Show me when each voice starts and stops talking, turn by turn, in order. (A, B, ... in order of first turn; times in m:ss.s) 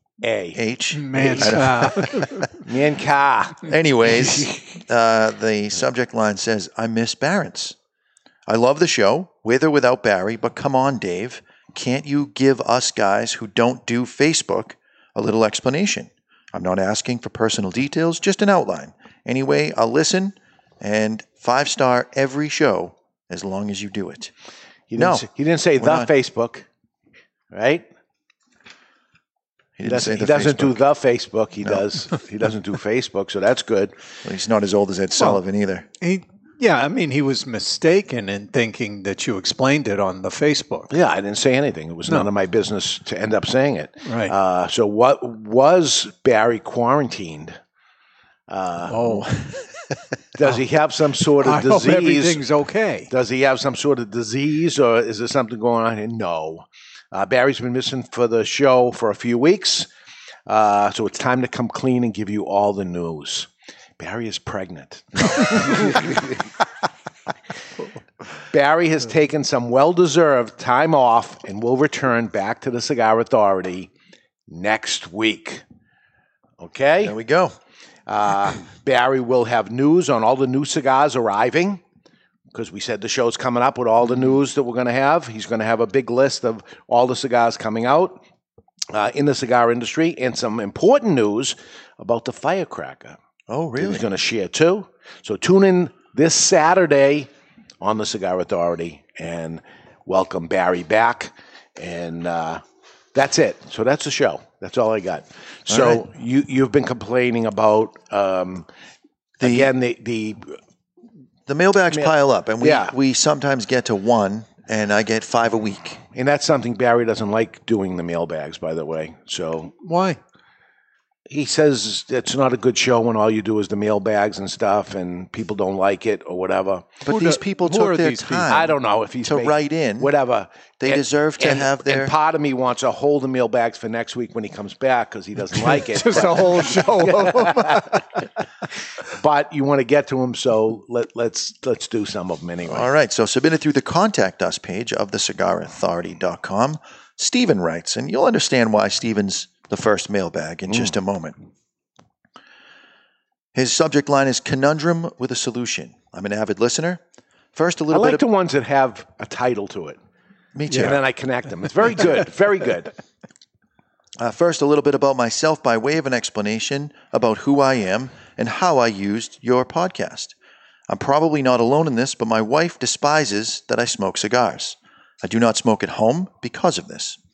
0:00.2-0:00.6 A
0:00.5-0:02.4 B
0:00.9-0:02.6 C
0:01.1-0:01.9 A
0:02.6-0:04.6 A
0:03.6-0:07.8 B
0:08.5-0:24.3 B
0:24.9-0:26.7 A
0:25.0-0:25.3 B
0:25.8-0:26.1 B
0:27.5-0:27.8 A
0:29.8-0:30.8 B
0:29.9-0:34.0 A
0:34.2-0:35.9 B
0:36.0-0:40.9 C
0:40.9-0:47.6 A
0:44.0-0:44.3 C
0:48.5-0:49.0 A
0:48.9-0:49.3 C
0:49.0-0:50.0 B
0:50.4-0:52.4 A
0:51.4-0:53.1 C
0:53.1-0:59.9 A
1:00.5-1:03.5 A
1:04.0-1:06.4 A
1:08.5-1:13.9 A
1:14.5-1:15.6 A
1:16.6-1:17.2 A
1:17.0-1:17.6 B
1:18.1-1:21.8 A
1:22.5-1:28.2 A
1:28.9-1:33.2 A
1:33.5-1:34.0 B
1:33.8-1:37.3 A
1:37.8-1:42.6 A
1:43.1-1:48.7 A
1:45.7-1:46.0 B
1:49.4-1:49.7 B
1:49.4-1:50.6 A
1:51.5-1:56.0 B
1:51.9-1:53.0 A
1:56.1-1:59.8 A
1:59.8-2:00.2 C
2:01.3-2:07.0 A
2:07.0-2:10.1 B
2:07.1-2:08.5 C
2:08.5-2:18.0 A
2:10.8-2:12.1 B
2:15.6-2:18.2 C
2:19.1-2:22.9 A
2:22.7-2:31.4 B
2:33.5-2:37.0 B
2:37.6-2:38.2 B
2:37.9-2:40.0 A
2:40.6-2:41.0 B
2:40.7-2:42.9 A
2:44.2-2:50.3 B
2:50.9-2:57.2 B